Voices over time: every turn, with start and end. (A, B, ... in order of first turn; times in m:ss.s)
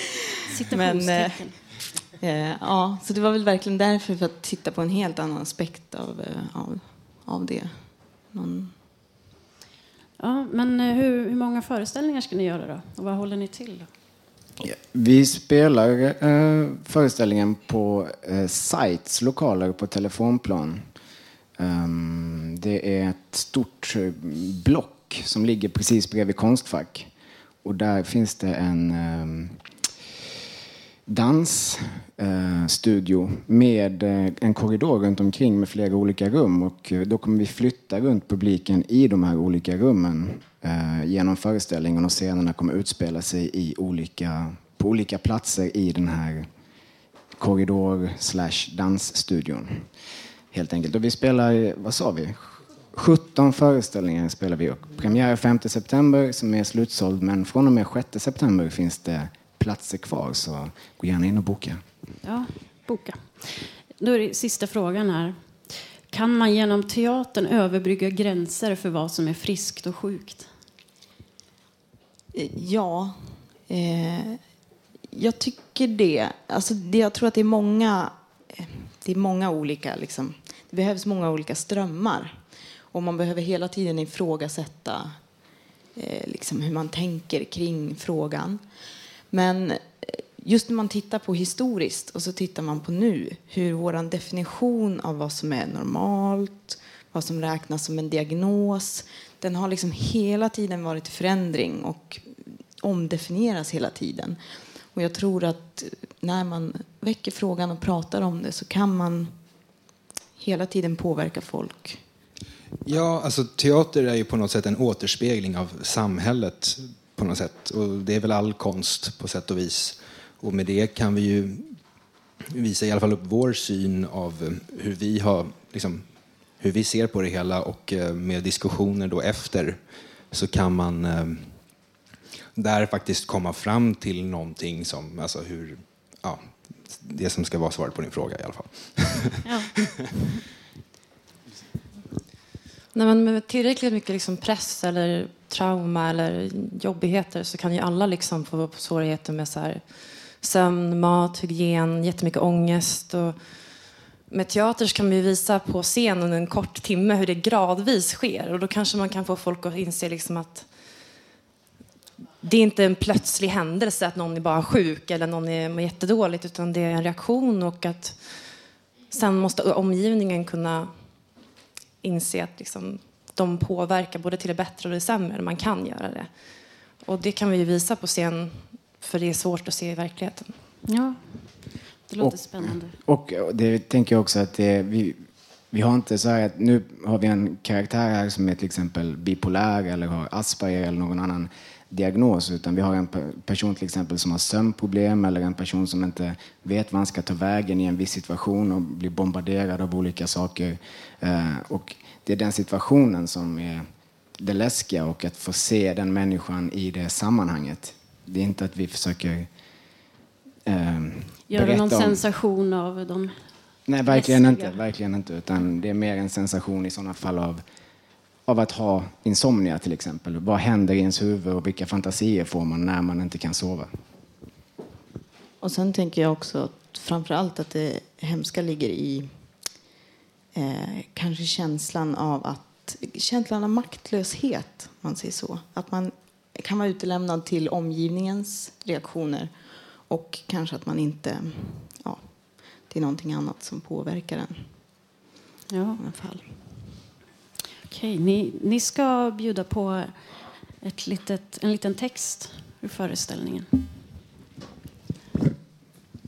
0:00.5-0:01.6 A
0:00.5-0:08.8 B
0:10.2-0:13.9 A
0:14.6-0:20.9 C
0:21.6-0:27.1 C
0:27.6-0:29.9 C
0:31.1-0:46.5 C
0:47.3-0:49.9 C
0:50.5-1:01.8 C
1:02.2-1:10.5 A
1:12.3-1:28.8 B
1:29.3-1:49.8 B
1:50.4-1:52.0 B
1:52.8-2:19.4 D
2:19.4-2:19.7 A
2:22.9-2:40.7 E
2:42.4-2:51.4 E
2:52.0-3:00.6 E
3:00.8-3:02.9 A
3:02.2-3:29.7 C
3:30.6-3:32.2 C
3:31.5-3:34.8 A
3:33.8-3:44.0 C
3:45.6-3:49.8 B
3:50.5-4:05.2 B
4:05.7-4:06.0 A
4:06.0-4:06.7 B
4:07.9-4:13.8 A